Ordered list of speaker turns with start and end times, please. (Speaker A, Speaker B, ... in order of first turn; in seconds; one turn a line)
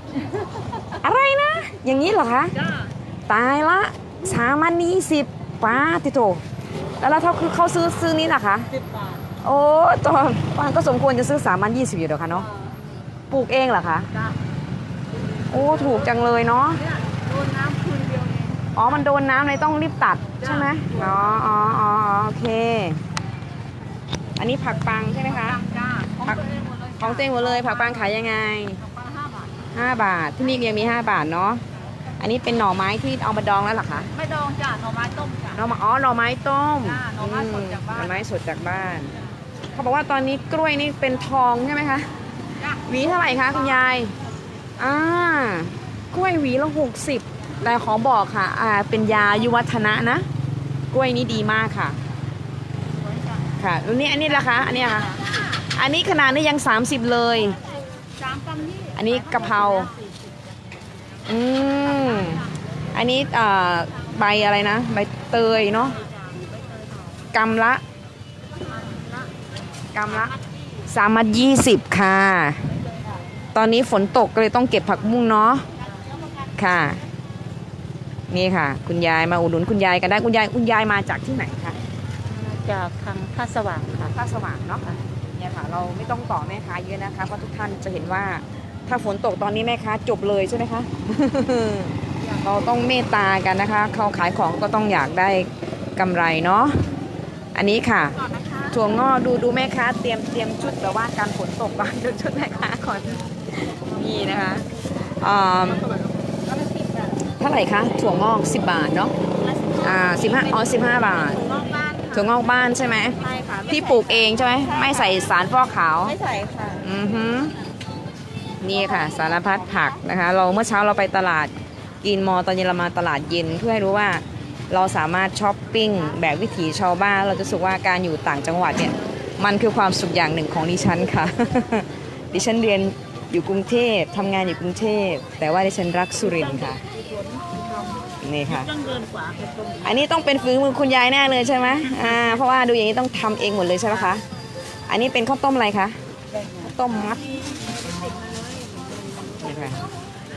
Speaker A: 0.9-2.6
Speaker A: 3.3-6.4
Speaker A: 7.0-8.7
Speaker A: 9.4-12.5
Speaker A: 13.3-14.1
Speaker A: 15.5-16.8
Speaker B: 17.3-18.4
Speaker A: 18.7-23.0
Speaker A: 24.4-25.6
Speaker B: 25.5-27.7
Speaker A: 26.2-28.8
Speaker B: 28.9-29.4
Speaker A: 29.7-31.6
Speaker A: 32.2-34.1
Speaker B: 34.1-35.6
Speaker A: 35.5-39.1
Speaker B: 36.8-38.2
Speaker A: 39.7-42.1
Speaker A: 42.7-44.1
Speaker A: 44.8-50.2
Speaker A: 50.9-52.0
Speaker A: 53.6-55.2
Speaker A: 55.7-57.6
Speaker B: 58.2-59.0
Speaker A: 58.9-59.9
Speaker A: 61.3-66.0
Speaker A: 67.3-67.8
Speaker A: 69.9-72.6
Speaker A: 73.5-75.6
Speaker A: 76.5-77.0
Speaker A: 78.3-81.8
Speaker B: 82.3-84.1
Speaker A: 84.0-96.8
Speaker A: 97.5-105.9
Speaker B: 106.5-106.9
Speaker A: 107.4-109.1
Speaker A: 109.8-111.5
Speaker B: 111.3-112.1
Speaker A: 112.1-116.2
Speaker B: 113.2-114.3
Speaker B: 116.1-116.8
Speaker A: 116.8-117.5
Speaker A: 118.6-121.5
Speaker A: 122.0-136.8
Speaker B: 136.3-138.0
Speaker A: 138.2-138.7
Speaker B: 138.5-139.9
Speaker A: 139.8-144.2
Speaker A: 144.9-146.0
Speaker A: 146.6-147.4
Speaker B: 147.5-148.8
Speaker A: 149.4-149.8